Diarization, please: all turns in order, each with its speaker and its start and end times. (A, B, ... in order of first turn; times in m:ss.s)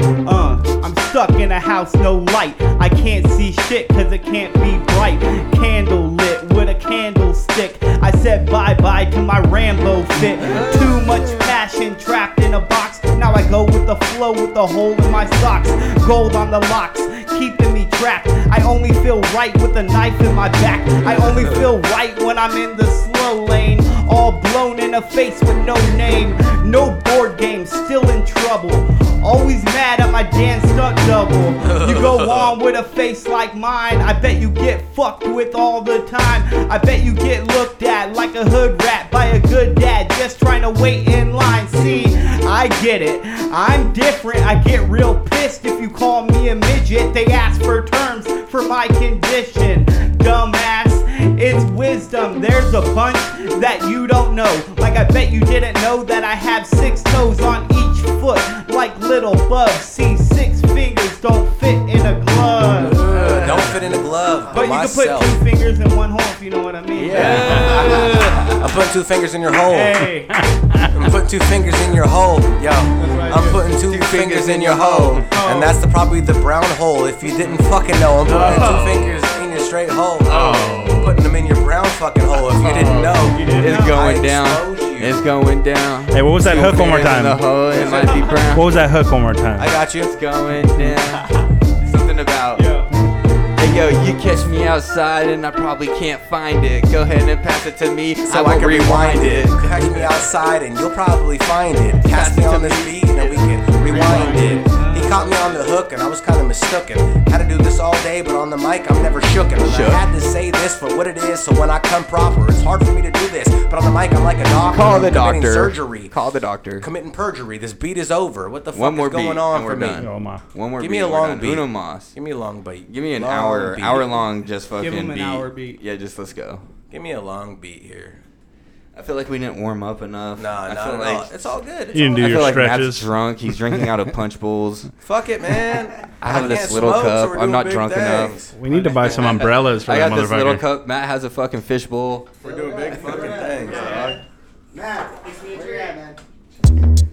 0:00.2-1:03.0 A
0:31.7-0:32.5 B
1:02.9-1:05.4 B
1:03.1-1:03.4 C
1:04.5-1:08.4 A
1:07.0-1:08.6 C
1:08.6-1:10.1 B
1:09.7-1:10.3 A
1:10.9-1:25.3 B
1:13.0-1:13.6 A
1:13.8-1:15.2 C
1:15.1-1:15.8 A
1:18.2-1:19.2 C
1:18.3-1:18.9 A
1:20.2-1:21.2 C
1:22.6-1:28.8 C
1:23.2-1:24.0 A
1:26.1-1:27.5 D
1:27.7-1:28.4 A
1:28.5-1:29.7 D
1:29.6-1:30.1 B
1:29.6-1:31.2 C
1:31.2-1:31.4 A
1:31.8-1:32.6 C
1:32.6-1:32.9 A
1:33.6-1:40.3 C
1:38.3-1:56.1 B
1:42.0-1:44.5 C
1:43.9-1:45.2 A
1:49.6-1:50.0 C
1:54.7-1:56.9 C
1:56.8-2:00.0 B
1:58.7-2:02.1 C
2:00.0-2:00.4 D
2:00.8-2:04.1 B
2:02.9-2:06.6 C
2:04.8-2:05.8 A
2:06.9-2:08.2 B
2:08.9-2:14.9 C
2:10.4-2:12.7 B
2:11.9-2:13.1 D
2:15.0-2:18.5 B
2:16.2-2:22.3 C
2:18.5-2:20.6 D
2:22.4-2:24.2 B
2:22.4-2:24.2 E
2:22.9-2:24.0 C
2:23.7-2:24.0 A
2:24.7-2:26.2 E